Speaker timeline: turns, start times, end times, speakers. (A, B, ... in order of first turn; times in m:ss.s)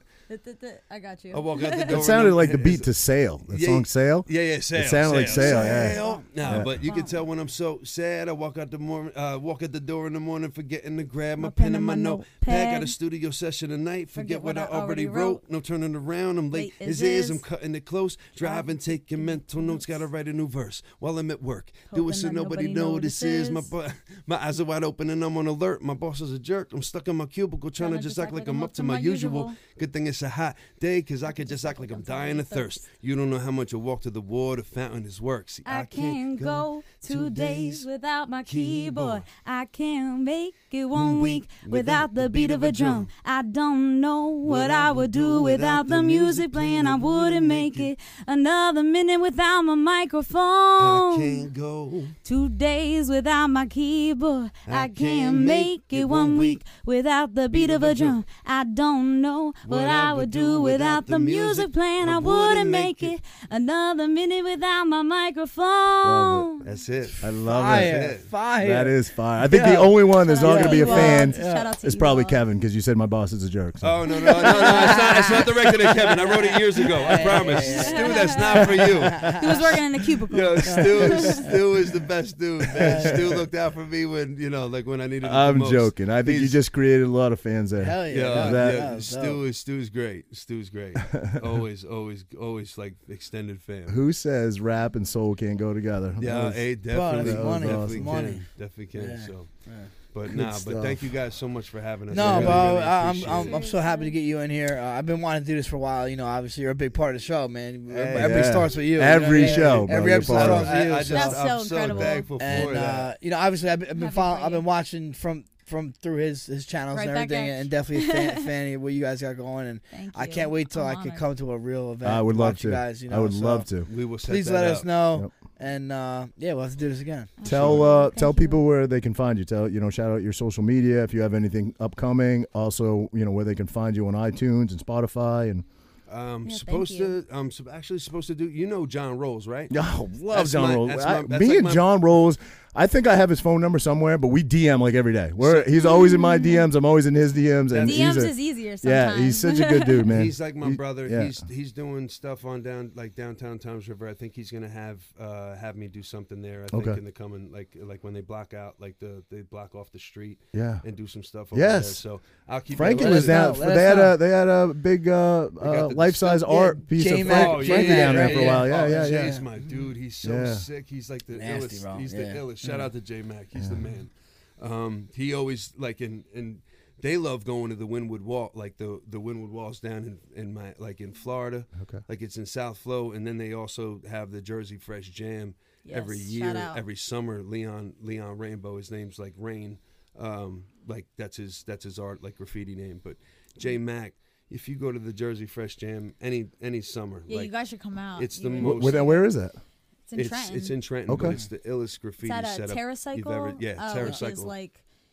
0:00.3-0:02.0 A
0:01.3-0:02.9 B
0:01.9-0:06.8 C
0:03.5-0:37.9 B
0:05.2-0:07.2 A
0:11.4-0:13.0 A
0:14.1-0:15.4 A
0:16.5-0:17.4 A
0:18.4-0:20.0 A
0:21.9-0:23.7 A
0:27.8-0:29.6 A
0:31.3-0:32.8 A
0:35.6-0:51.4 A
0:38.5-0:39.2 B
0:40.9-0:43.1 B
0:44.4-0:47.9 B
0:50.8-0:52.2 B
0:52.2-1:06.6 A
0:54.7-0:56.6 B
0:57.5-0:58.2 B
0:59.6-1:03.2 B
1:06.0-1:06.6 C
1:06.6-1:08.3 B
1:07.2-1:08.0 C
1:07.4-1:11.7 D
1:08.6-1:14.1 C
1:10.1-1:12.4 A
1:13.8-1:26.6 B
1:14.2-1:15.9 A
1:14.5-1:18.3 D
1:17.0-1:21.5 A
1:19.0-1:19.5 D
1:20.6-1:21.5 D
1:22.8-1:23.2 D
1:22.8-1:23.4 C
1:25.2-1:28.9 C
1:27.8-1:29.4 D
1:28.1-1:34.0 B
1:33.9-1:38.3 C
1:36.2-1:43.7 B
1:36.9-1:39.9 D
1:40.3-1:41.1 C
1:42.1-1:51.4 D
1:42.2-1:42.7 C
1:43.3-1:44.2 A
1:47.9-1:53.1 B
1:48.2-1:50.9 C
1:51.0-1:52.8 A
1:52.4-2:03.7 D
1:54.0-1:54.6 A
1:56.9-1:58.3 A
1:59.9-2:01.3 A
2:02.0-2:03.9 C
2:03.8-2:04.9 B
2:04.2-2:07.3 D
2:07.4-2:08.6 A
2:07.4-2:07.9 B
2:07.4-2:15.6 C
2:16.1-2:19.7 B
2:16.4-2:17.2 A
2:19.7-2:31.4 C
2:20.3-2:21.8 B
2:25.4-2:26.2 B
2:25.8-2:26.7 A
2:27.7-2:28.2 B
2:27.8-2:30.1 A
2:30.1-2:43.5 B
2:36.7-2:37.0 C
2:40.5-2:40.8 C
2:41.5-2:42.0 C
2:42.7-2:49.4 C
2:42.9-2:44.2 D
2:45.6-3:17.5 B
2:46.5-2:49.5 D
2:50.2-2:50.6 C
2:51.3-2:52.9 D
2:53.6-2:53.9 C
3:01.8-3:02.0 C
3:05.9-3:06.8 A
3:17.3-3:19.3 A
3:18.2-3:19.2 B
3:18.6-3:19.6 C
3:20.1-3:20.8 A
3:20.1-3:24.5 B
3:21.1-3:21.4 C
3:22.2-3:24.8 A